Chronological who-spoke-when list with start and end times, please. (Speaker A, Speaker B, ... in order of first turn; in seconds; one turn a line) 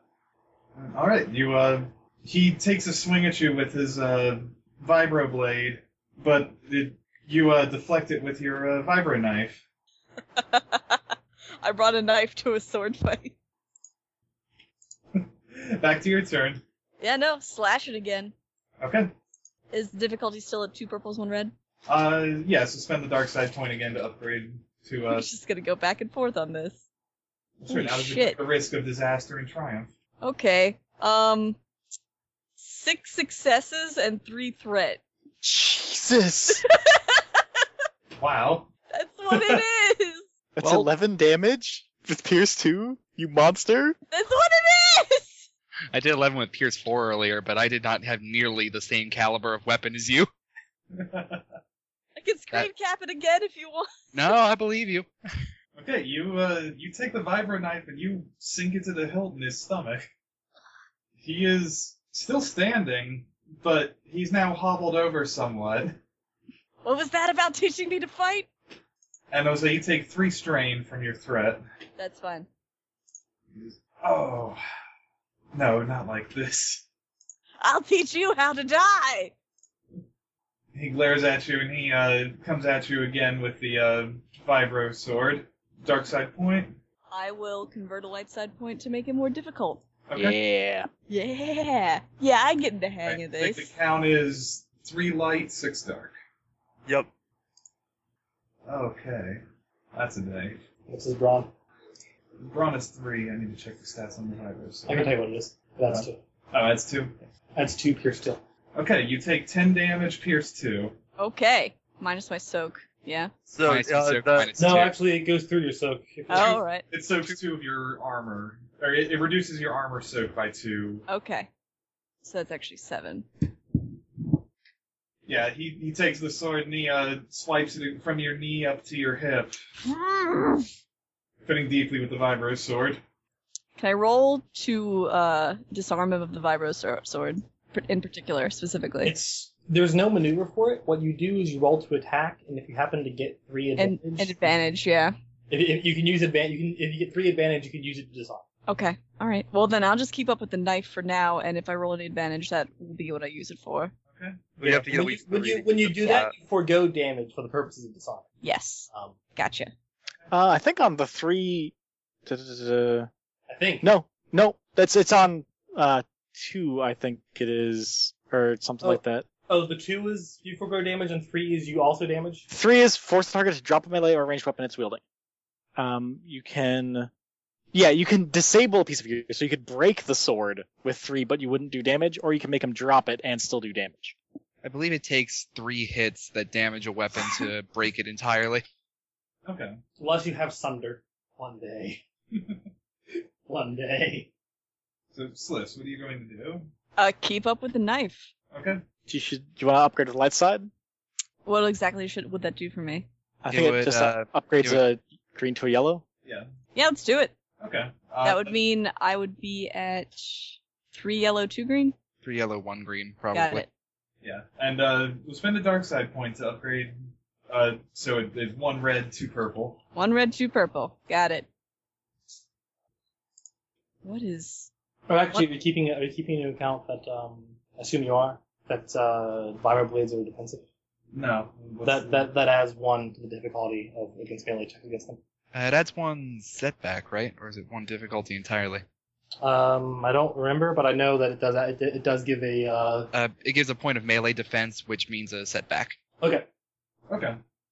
Speaker A: 0.8-9.6
Speaker B: 10.4-11.0
Speaker B: 11.6-13.3
Speaker A: 15.1-16.6
Speaker B: 17.0-18.3
Speaker A: 18.8-19.1
Speaker B: 19.7-21.5
Speaker A: 21.9-25.3
Speaker B: 25.1-26.8
Speaker A: 27.6-29.9
Speaker B: 27.7-28.4
Speaker B: 30.2-31.6
Speaker B: 32.6-35.0
Speaker C: 35.4-36.6
Speaker B: 36.5-37.2
Speaker A: 38.2-38.7
Speaker B: 38.9-40.2
Speaker A: 39.3-39.6
Speaker C: 40.5-44.0
Speaker B: 44.1-45.5
Speaker D: 45.9-50.3
Speaker A: 50.9-51.5
Speaker B: 52.1-54.3
Speaker D: 54.1-55.1
Speaker A: 55.8-60.1
Speaker A: 61.2-66.0
Speaker B: 66.8-68.5
Speaker A: 69.3-71.6
Speaker B: 72.0-72.5
Speaker A: 73.5-74.6
Speaker A: 75.5-76.8
Speaker B: 77.6-79.3
Speaker A: 80.7-86.8
Speaker B: 87.1-89.8
Speaker A: 90.1-90.4
Speaker C: 90.3-90.9
Speaker B: 91.1-93.7
Speaker A: 93.0-96.1
Speaker A: 98.7-99.4
Speaker A: 99.9-100.6
Speaker E: 100.9-101.5
Speaker A: 102.4-105.1
Speaker E: 104.9-106.2
Speaker A: 105.9-107.2
Speaker E: 107.5-108.4
Speaker A: 108.7-111.0
Speaker B: 111.2-113.3
Speaker F: 113.5-114.5
Speaker D: 113.6-115.0
Speaker E: 114.5-116.6
Speaker B: 116.3-116.8
Speaker A: 116.4-121.0
Speaker B: 121.1-121.5
Speaker B: 122.2-123.3
Speaker A: 125.2-129.6
Speaker B: 130.0-130.6
Speaker A: 131.4-133.0
Speaker B: 133.8-139.2
Speaker E: 139.0-144.4
Speaker B: 143.8-145.1
Speaker E: 145.5-148.4
Speaker B: 148.7-153.9
Speaker A: 154.1-154.5
Speaker E: 154.6-158.3
Speaker F: 154.6-156.3
Speaker B: 158.4-159.7
Speaker E: 158.9-159.2
Speaker C: 160.3-161.7
Speaker C: 162.2-163.1
Speaker E: 163.5-163.9
Speaker C: 163.8-169.3
Speaker E: 168.8-172.4
Speaker C: 172.5-175.0
Speaker C: 175.8-177.1
Speaker C: 177.7-184.2
Speaker D: 184.6-188.6
Speaker A: 189.4-189.8
Speaker E: 190.0-192.0
Speaker A: 192.3-192.6
Speaker E: 193.1-194.3
Speaker A: 195.1-196.7
Speaker B: 197.0-198.3
Speaker A: 198.5-198.8
Speaker C: 199.1-200.7
Speaker B: 201.4-203.1
Speaker C: 203.4-206.0
Speaker D: 203.5-204.8
Speaker B: 206.7-207.3
Speaker A: 207.6-208.5
Speaker B: 208.2-211.9
Speaker D: 212.2-213.6
Speaker B: 213.3-213.7
Speaker A: 214.2-219.8
Speaker B: 219.9-221.5
Speaker B: 224.0-224.7
Speaker E: 225.1-230.6
Speaker A: 231.1-232.3
Speaker E: 231.8-235.2
Speaker D: 235.5-238.8
Speaker E: 239.4-243.1
Speaker D: 243.1-246.0
Speaker E: 246.2-246.5
Speaker A: 247.1-247.4